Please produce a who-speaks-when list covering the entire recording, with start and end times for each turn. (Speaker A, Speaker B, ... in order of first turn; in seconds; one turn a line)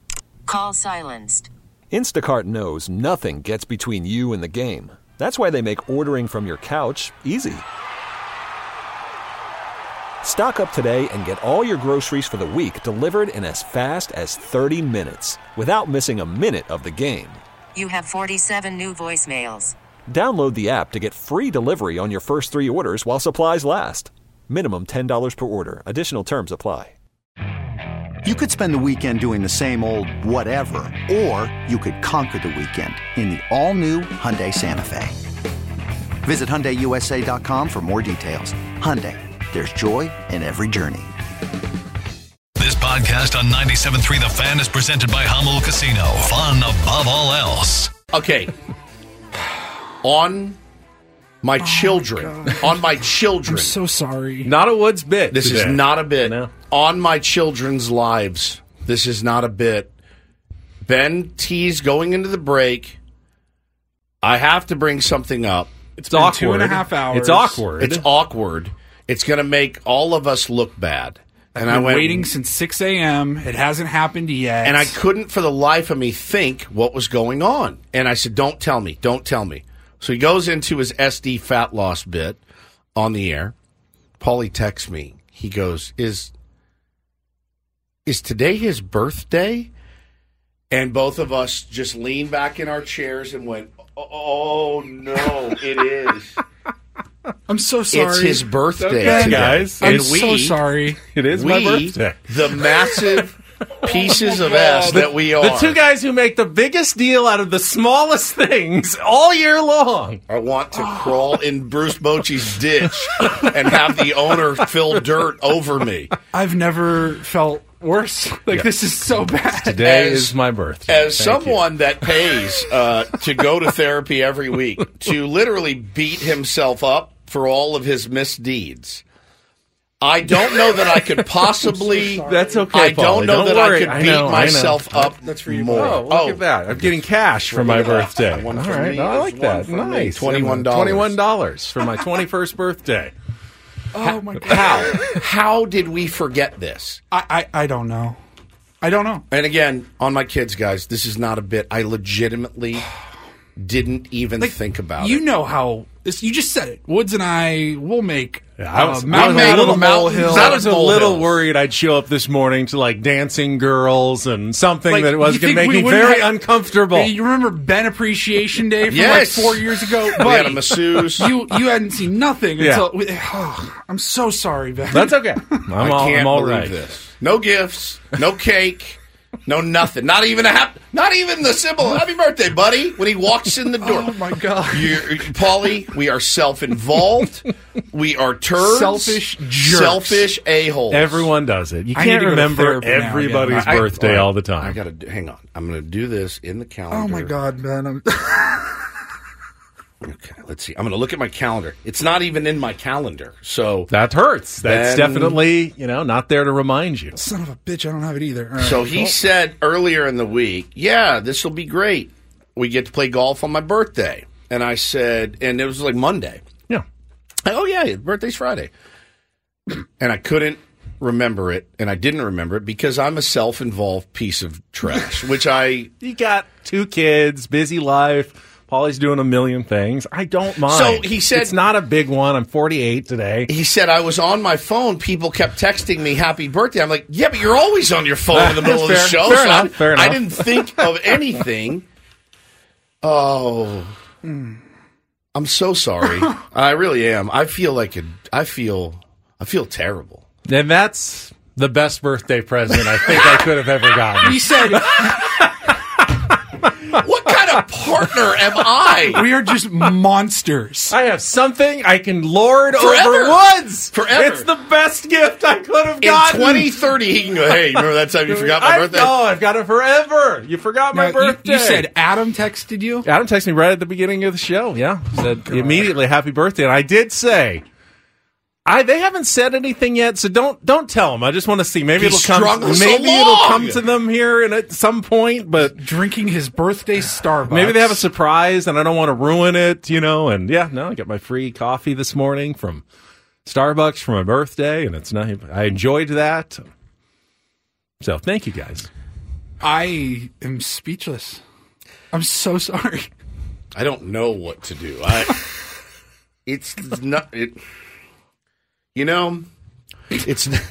Speaker A: 0.5-1.5
Speaker B: 1.9-7.7
Speaker B: 10.2-17.4
Speaker A: 17.7-19.7
Speaker B: 20.1-26.9
Speaker C: 28.2-35.2
Speaker C: 36.2-41.1
Speaker D: 42.6-47.9
Speaker E: 48.1-48.5
Speaker E: 50.0-50.6
Speaker E: 51.4-53.8
Speaker F: 51.6-52.8
Speaker F: 53.5-54.5
Speaker G: 54.4-56.5
Speaker E: 55.3-59.9
Speaker E: 60.8-63.0
Speaker E: 64.2-65.8
Speaker F: 66.0-67.6
Speaker G: 66.1-68.0
Speaker E: 67.8-72.3
Speaker F: 71.5-75.0
Speaker E: 74.6-82.4
Speaker E: 83.0-83.5
Speaker E: 84.2-86.3
Speaker E: 88.0-89.7
Speaker E: 90.7-96.3
Speaker F: 97.5-98.5
Speaker E: 97.9-100.6
Speaker G: 98.8-100.2
Speaker F: 99.0-101.0
Speaker G: 101.1-103.0
Speaker E: 101.3-105.8
Speaker G: 104.8-110.2
Speaker E: 110.3-116.1
Speaker F: 116.3-120.0
Speaker G: 119.5-122.1
Speaker E: 119.8-120.3
Speaker E: 120.9-129.0
Speaker E: 130.0-141.2
Speaker F: 131.6-132.7
Speaker G: 132.2-143.1
Speaker F: 135.2-136.0
Speaker F: 143.9-145.0
Speaker E: 144.0-147.0
Speaker F: 147.1-148.2
Speaker F: 148.8-149.2
Speaker E: 149.3-152.8
Speaker E: 153.6-155.2
Speaker F: 154.4-160.6
Speaker G: 158.6-167.1
Speaker E: 159.1-161.4
Speaker F: 164.9-175.7
Speaker E: 168.9-171.3
Speaker G: 172.6-172.9
Speaker G: 174.9-176.7
Speaker E: 175.8-191.3
Speaker F: 183.8-185.2
Speaker F: 188.6-190.3
Speaker G: 190.9-194.8
Speaker F: 191.9-193.9
Speaker E: 193.5-197.3
Speaker F: 196.9-198.9
Speaker E: 200.0-203.9
Speaker G: 203.9-207.2
Speaker E: 204.6-205.4
Speaker F: 207.1-209.1
Speaker E: 208.6-216.4
Speaker E: 217.4-218.7
Speaker E: 220.0-225.9
Speaker G: 226.0-233.5
Speaker E: 230.7-231.5
Speaker E: 233.5-241.8
Speaker G: 238.3-241.0
Speaker E: 243.0-243.9
Speaker E: 245.3-250.2
Speaker G: 250.5-255.7
Speaker F: 254.2-255.2
Speaker E: 256.9-259.3
Speaker F: 259.1-260.9
Speaker G: 260.9-266.8
Speaker E: 262.8-264.5
Speaker E: 266.0-269.1
Speaker G: 267.4-271.9
Speaker F: 270.9-273.1
Speaker G: 273.0-277.6
Speaker G: 278.6-285.8
Speaker E: 282.0-283.8
Speaker F: 285.6-288.0
Speaker G: 287.5-292.8
Speaker G: 293.4-296.6
Speaker G: 298.0-298.9
Speaker F: 299.6-301.4
Speaker F: 302.1-303.1
Speaker E: 303.7-305.4
Speaker E: 306.4-307.6
Speaker E: 308.9-309.5
Speaker E: 310.1-310.6